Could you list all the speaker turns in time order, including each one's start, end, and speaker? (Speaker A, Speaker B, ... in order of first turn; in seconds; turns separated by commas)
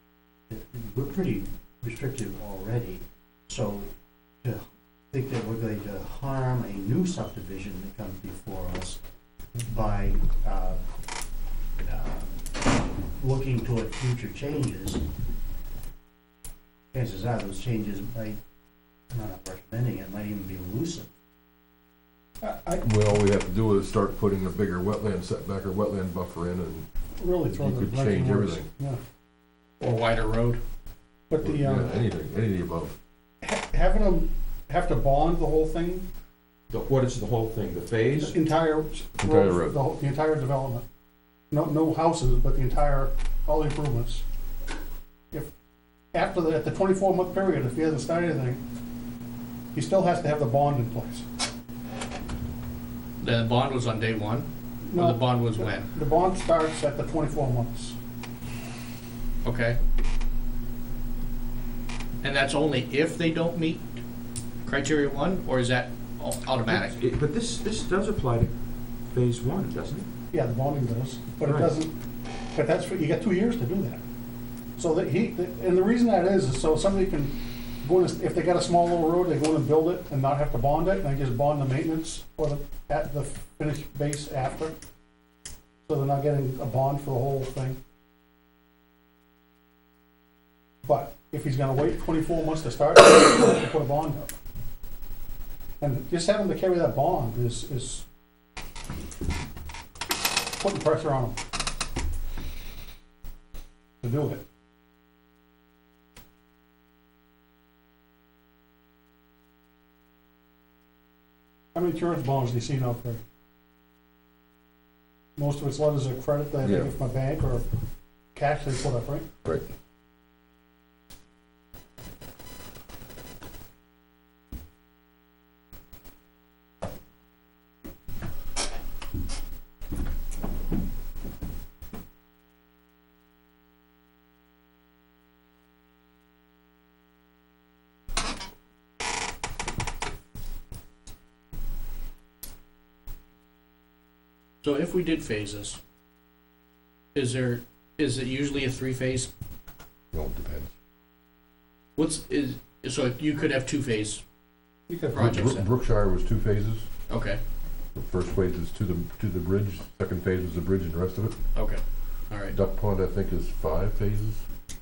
Speaker A: 0.5-3.9, Speaker A: 4.4-9.0, Speaker A: 9.6-10.8, Speaker A: 11.8-15.0, Speaker A: 16.9-18.4, Speaker A: 19.1-21.1, Speaker B: 22.4-22.8, Speaker C: 22.8-26.9, Speaker B: 27.2-29.0, Speaker C: 27.5-28.7, Speaker D: 29.8-30.6, Speaker B: 31.3-31.9, Speaker C: 31.4-33.0, Speaker B: 33.4-36.0, Speaker E: 36.7-38.4, Speaker B: 38.1-40.8, Speaker C: 39.2-39.8, Speaker B: 41.5-44.2, Speaker B: 46.1-48.6, Speaker B: 49.7-51.2, Speaker D: 53.2-55.9, Speaker B: 54.8-58.0, Speaker D: 59.4-59.8, Speaker D: 62.2-63.8, Speaker D: 64.6-67.0, Speaker E: 66.7-68.5, Speaker E: 69.1-70.1, Speaker B: 70.3-71.9, Speaker E: 71.4-71.7, Speaker B: 72.5-74.0, Speaker B: 74.8-84.8, Speaker B: 85.9-87.8, Speaker B: 90.8-94.3, Speaker B: 95.8-98.0, Speaker B: 100.6-101.4, Speaker B: 104.0-104.4, Speaker B: 111.7-113.2, Speaker B: 115.4-117.6, Speaker C: 116.6-116.9, Speaker B: 118.3-119.3, Speaker D: 144.6-145.8, Speaker D: 147.1-149.3, Speaker C: 150.1-150.7, Speaker D: 151.9-154.2, Speaker B: 154.9-155.2, Speaker D: 155.1-155.6, Speaker C: 155.1-156.8, Speaker D: 157.1-157.4, Speaker C: 157.9-161.3, Speaker D: 161.5-162.5, Speaker C: 162.5-164.4